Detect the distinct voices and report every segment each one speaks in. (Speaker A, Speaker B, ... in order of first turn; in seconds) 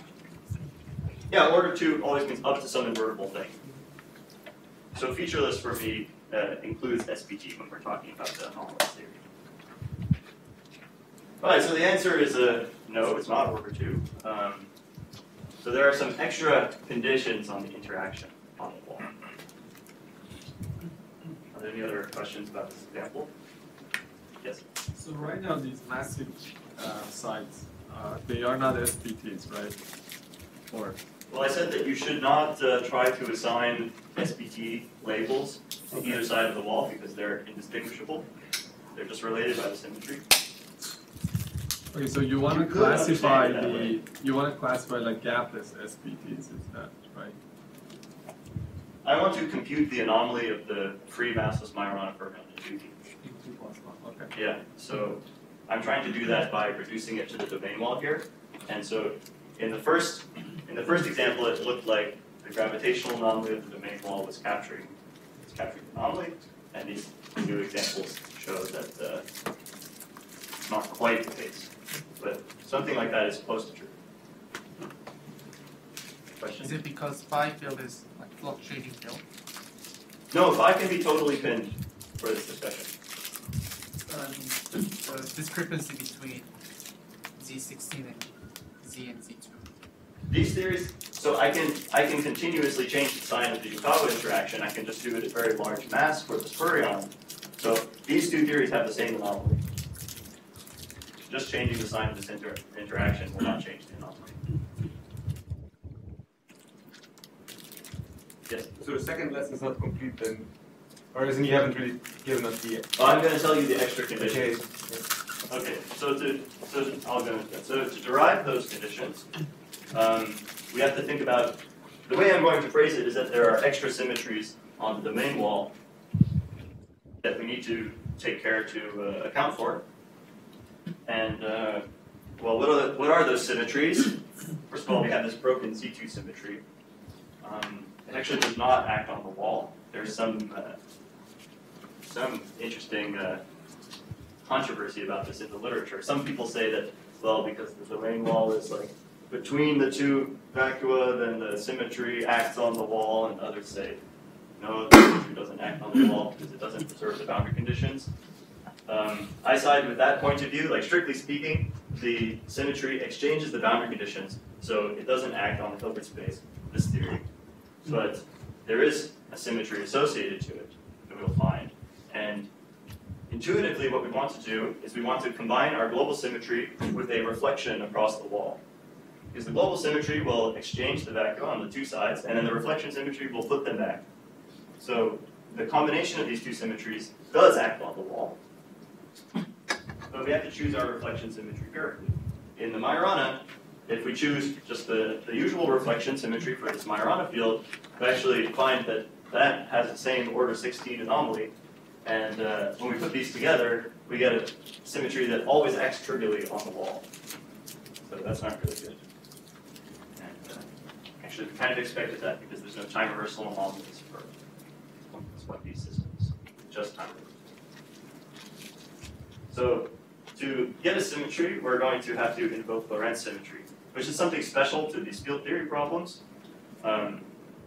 Speaker A: 1.3-3.6, 4.9-9.2, 11.4-14.7, 15.6-19.1, 21.5-23.3, 31.3-38.3, 38.9-40.2, 42.5-44.0, 49.0-53.0, 54.3-69.2, 70.7-74.0, 76.3-76.7, 80.3-82.9, 90.3-99.6, 101.2-104.4, 113.0-114.7, 115.5-119.3, 119.9-125.7, 127.2-129.8, 131.0-131.8, 132.4-136.6, 137.4-140.8, 142.0-143.4, 144.4-154.0, 154.6-158.1, 158.8-167.2, 167.8-172.5, 173.3-178.6, 179.3-184.0, 184.8-188.4, 190.1-201.5, 202.0-207.1, 208.0-209.0, 210.2-210.7, 211.2-214.3, 215.1-217.3, 219.5-226.2, 226.8-227.3
Speaker B: 24.9-29.8, 30.7-31.0, 41.9-47.4, 53.2-54.3
Speaker C: 76.6-79.2, 84.1-86.5, 87.4-89.7
Speaker D: 108.8-110.5, 111.1-113.1, 114.2-115.0